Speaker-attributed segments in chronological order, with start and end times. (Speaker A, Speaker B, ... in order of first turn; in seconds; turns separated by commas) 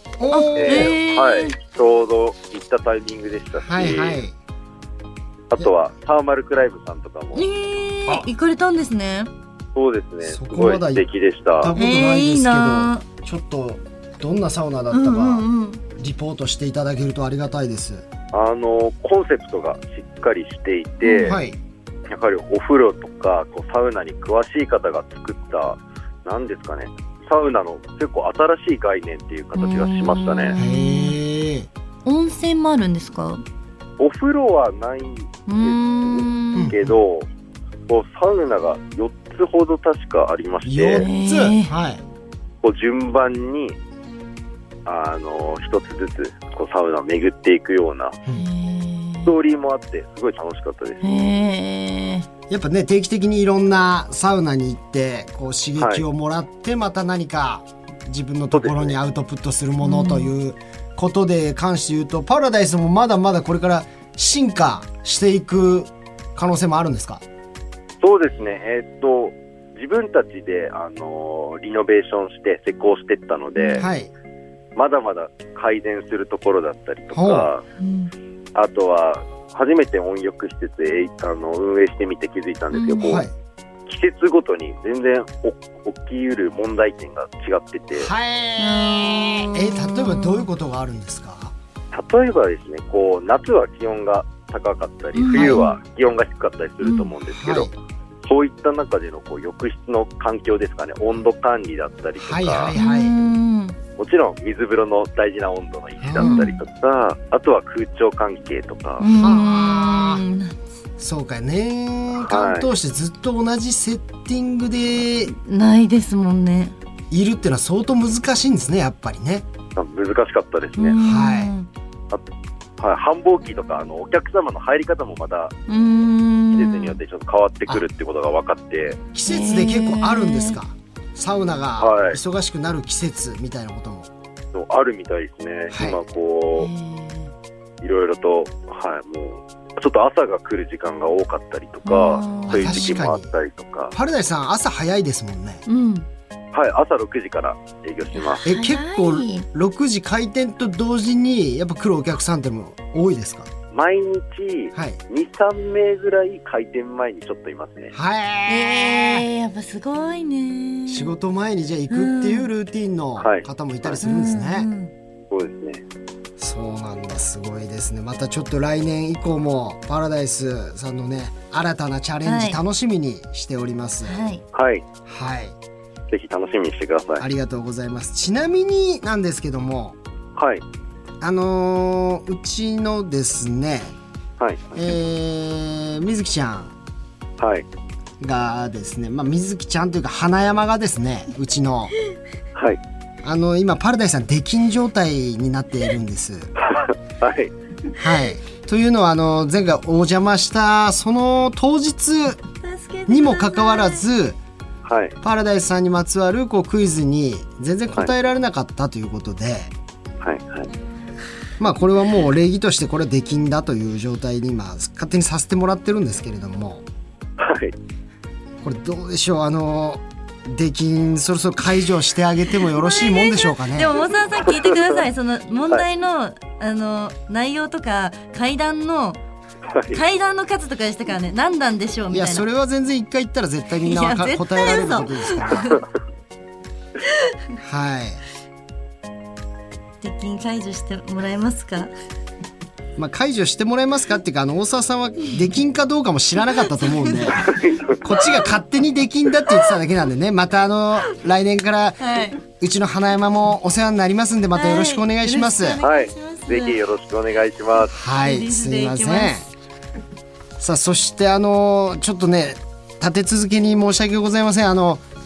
Speaker A: 0.2-0.9, Speaker B: 0.3-1.6, Speaker C: 0.5-4.2, Speaker A: 3.6-4.3, Speaker C: 5.5-7.4, Speaker B: 7.3-9.3, Speaker C: 9.7-11.7, Speaker A: 10.2-11.1, Speaker A: 11.6-15.4, Speaker B: 11.7-13.0, Speaker B: 14.9-15.8, Speaker A: 16.0-18.0, Speaker C: 18.3-21.4, Speaker B: 21.0-21.4, Speaker A: 21.2-21.6, Speaker C: 22.1-30.5, Speaker B: 29.5-31.1, Speaker A: 30.6-31.7, Speaker B: 32.0-33.4, Speaker C: 34.0-37.3, Speaker B: 35.5-36.7, Speaker A: 36.5-36.9, Speaker C: 37.9-41.1, Speaker A: 40.6-42.0, Speaker B: 41.0-41.7, Speaker C: 42.6-43.8, Speaker C: 44.9-48.2, Speaker B: 48.3-49.3, Speaker C: 49.2-51.0, Speaker B: 51.0-52.3, Speaker A: 52.5-67.2, Speaker C: 55.8-56.0, Speaker C: 58.5-59.0, Speaker B: 59.8-60.3, Speaker C: 68.0-73.8, Speaker B: 73.5-73.8, Speaker A: 73.8-74.1, Speaker C: 74.8-77.6, Speaker A: 77.1-77.5, Speaker B: 77.8-78.1, Speaker C: 78.5-83.2, Speaker B: 82.7-83.2, Speaker A: 83.0-83.3, Speaker C: 83.9-88.1, Speaker A: 87.9-91.5, Speaker B: 88.6-90.5, Speaker C: 91.9-97.7, Speaker B: 95.2-95.8, Speaker A: 95.3-95.6, Speaker B: 96.8-97.1, Speaker A: 97.3-97.7, Speaker C: 98.2-102.7, Speaker A: 102.2-103.1, Speaker B: 102.7-103.8, Speaker C: 104.0-109.0, Speaker A: 106.0-106.4, Speaker B: 106.2-106.6, Speaker B: 109.0-110.6, Speaker A: 109.1-110.2, Speaker A: 111.0-115.3, Speaker C: 112.1-112.7, Speaker B: 115.3-116.8, Speaker A: 117.1-119.5, Speaker C: 119.8-120.9, Speaker B: 120.8-121.7, Speaker A: 121.0-121.5, Speaker C: 122.8-125.5, Speaker B: 125.7-127.0, Speaker C: 126.5-129.0, Speaker A: 129.1-134.1, Speaker B: 129.2-130.6, Speaker C: 131.8-132.2, Speaker C: 134.5-136.7, Speaker A: 135.7-136.0, Speaker B: 136.6-137.3, Speaker C: 137.8-143.9, Speaker B: 141.8-143.0, Speaker A: 142.5-143.3, Speaker A: 143.9-145.6, Speaker B: 145.7-146.1, Speaker C: 146.5-148.4, Speaker B: 148.1-149.4, Speaker A: 148.4-153.5, Speaker C: 153.7-157.9, Speaker A: 157.9-159.2, Speaker B: 158.5-161.1, Speaker A: 160.9-164.7, Speaker B: 161.9-162.5, Speaker C: 163.2-164.0, Speaker B: 164.0-164.9, Speaker C: 165.3-165.8, Speaker A: 166.4-174.2, Speaker B: 172.2-172.6, Speaker B: 174.0-174.4, Speaker C: 174.5-174.8, Speaker A: 175.1-175.5, Speaker C: 176.1-177.2, Speaker A: 177.2-180.0, Speaker C: 180.4-180.6, Speaker A: 181.2-183.9, Speaker C: 184.4-184.8, Speaker A: 184.7-186.7, Speaker C: 187.4-187.7, Speaker A: 188.2-191.9, Speaker C: 192.5-192.8, Speaker A: 193.2-196.5, Speaker C: 196.6-197.5, Speaker A: 198.0-202.4, Speaker B: 202.6-204.0, Speaker A: 203.1-204.4, Speaker C: 204.8-205.2, Speaker A: 205.2-209.7, Speaker C: 210.2-210.7, Speaker A: 211.6-216.8, Speaker C: 217.4-217.7, Speaker A: 218.6-224.0, Speaker B: 222.6-229.2, Speaker C: 224.5-225.0, Speaker C: 229.7-230.0, Speaker B: 229.9-232.5, Speaker A: 232.1-235.7, Speaker B: 233.8-235.8, Speaker A: 237.6-238.2, Speaker B: 240.0-241.9, Speaker A: 242.9-255.8, Speaker B: 246.7-247.4, Speaker C: 247.3-248.3, Speaker B: 252.0-252.4, Speaker B: 254.5-256.8, Speaker C: 255.8-257.9, Speaker A: 257.9-259.4, Speaker B: 258.1-259.4, Speaker A: 260.6-265.0